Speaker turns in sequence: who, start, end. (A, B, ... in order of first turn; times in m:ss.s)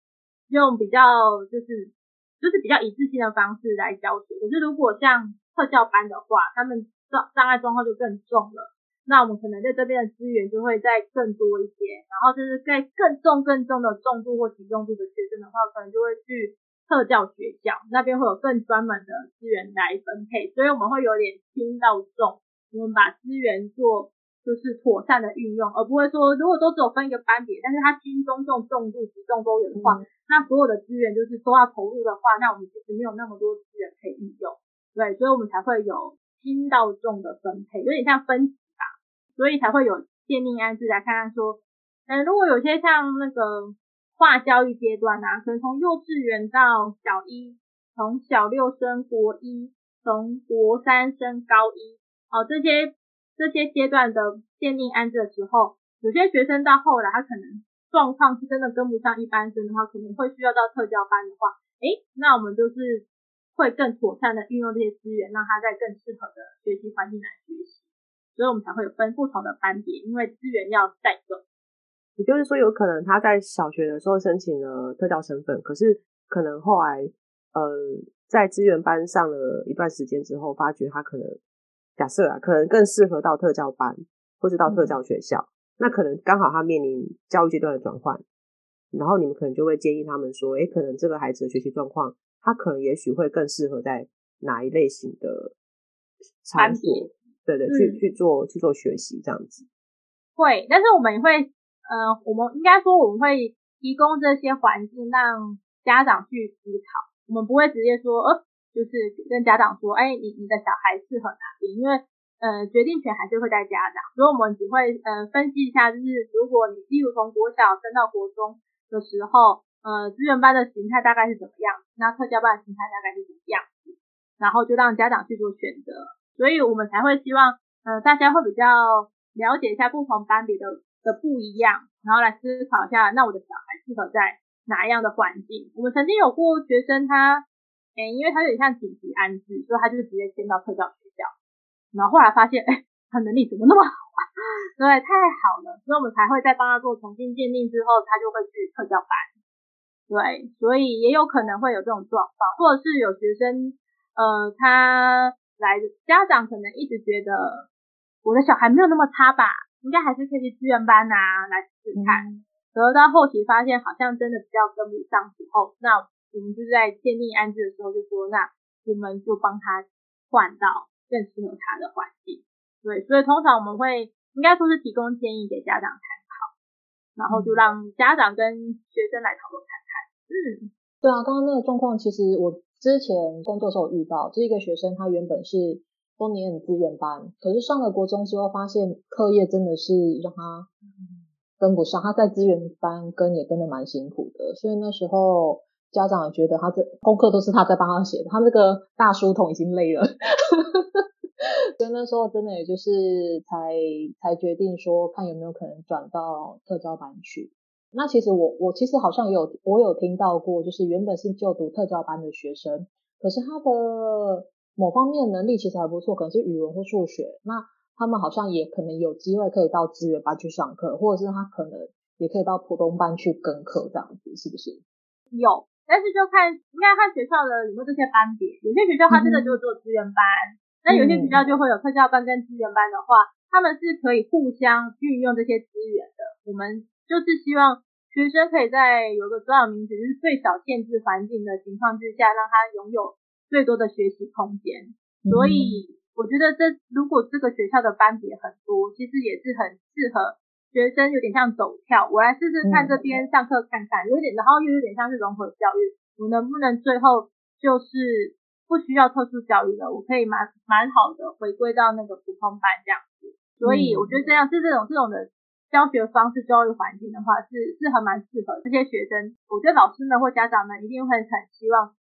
0:00.5-1:07.8 A
0:29.8-0:30.0 B
1:08.4-1:11.4 A
1:12.2-1:21.4 C
1:22.0-1:28.2 C
1:24.7-1:25.0 B
1:28.9-1:35.5 C
1:36.4-1:39.7 C
1:36.6-1:37.1 A
1:37.7-1:38.0 A
1:40.4-2:17.4 A
2:18.0-2:21.3 A
2:21.9-2:24.3 A
2:24.8-2:29.3 A
2:30.1-2:37.7 A
2:38.2-2:56.5 A
2:42.0-2:42.4 B
2:57.2-3:00.7 A
2:57.3-2:57.6 B
3:01.0-3:10.7 B
3:11.6-3:21.0 B
3:21.8-3:44.8 B
3:45.3-4:31.9 A
3:49.1-3:49.6 B
3:50.9-3:51.4 B
4:05.3-4:05.8 B
4:12.6-4:13.0 B
4:23.6-4:24.1 B